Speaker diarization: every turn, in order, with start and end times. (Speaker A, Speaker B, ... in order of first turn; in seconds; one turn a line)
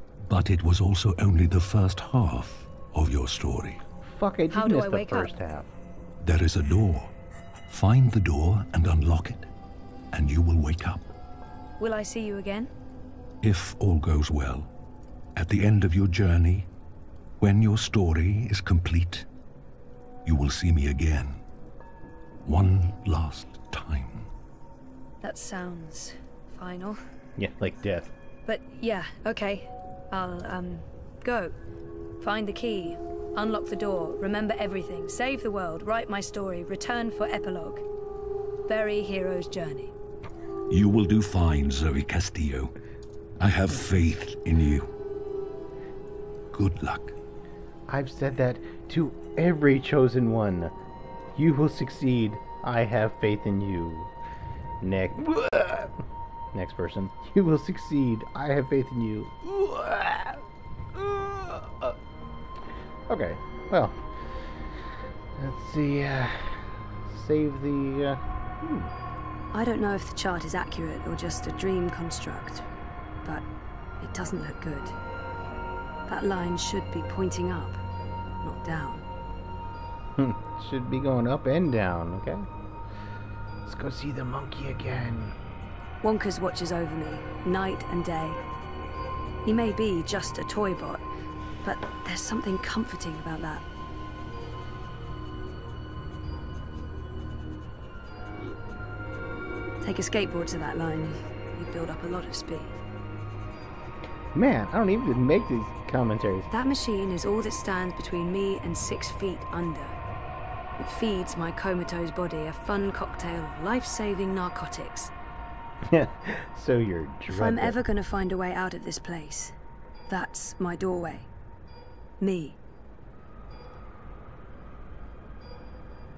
Speaker A: 0.2-3.8
Speaker B: 4.0-5.7
Speaker C: 4.5-5.3
Speaker A: 6.2-7.1
Speaker A: 7.7-9.5
Speaker A: 10.1-11.1
Speaker C: 11.8-12.7
Speaker A: 13.4-14.7
Speaker A: 15.4-16.7
Speaker A: 17.4-19.3
Speaker A: 20.2-21.4
Speaker A: 22.4-24.3
Speaker C: 25.2-27.0
Speaker B: 27.4-28.1
Speaker C: 28.5-31.6
Speaker C: 32.2-37.9
Speaker C: 38.7-39.9
Speaker A: 40.7-42.7
Speaker A: 43.4-44.9
Speaker A: 46.5-47.2
Speaker B: 47.9-50.7
Speaker B: 51.4-54.1
Speaker B: 54.8-56.0
Speaker B: 56.5-62.0
Speaker B: 63.1-64.8
Speaker B: 65.4-68.9
Speaker C: 69.5-72.7
Speaker C: 74.0-75.0
Speaker C: 76.1-77.8
Speaker C: 78.4-79.0
Speaker B: 80.2-82.5
Speaker B: 83.7-85.4
Speaker C: 86.0-88.4
Speaker C: 89.5-91.1
Speaker C: 91.6-93.7
Speaker C: 99.8-102.8
Speaker B: 104.3-106.5
Speaker C: 106.5-110.0
Speaker C: 110.8-115.1
Speaker B: 115.9-117.8
Speaker C: 117.3-119.5
Speaker C: 120.1-121.3
Speaker C: 122.2-122.6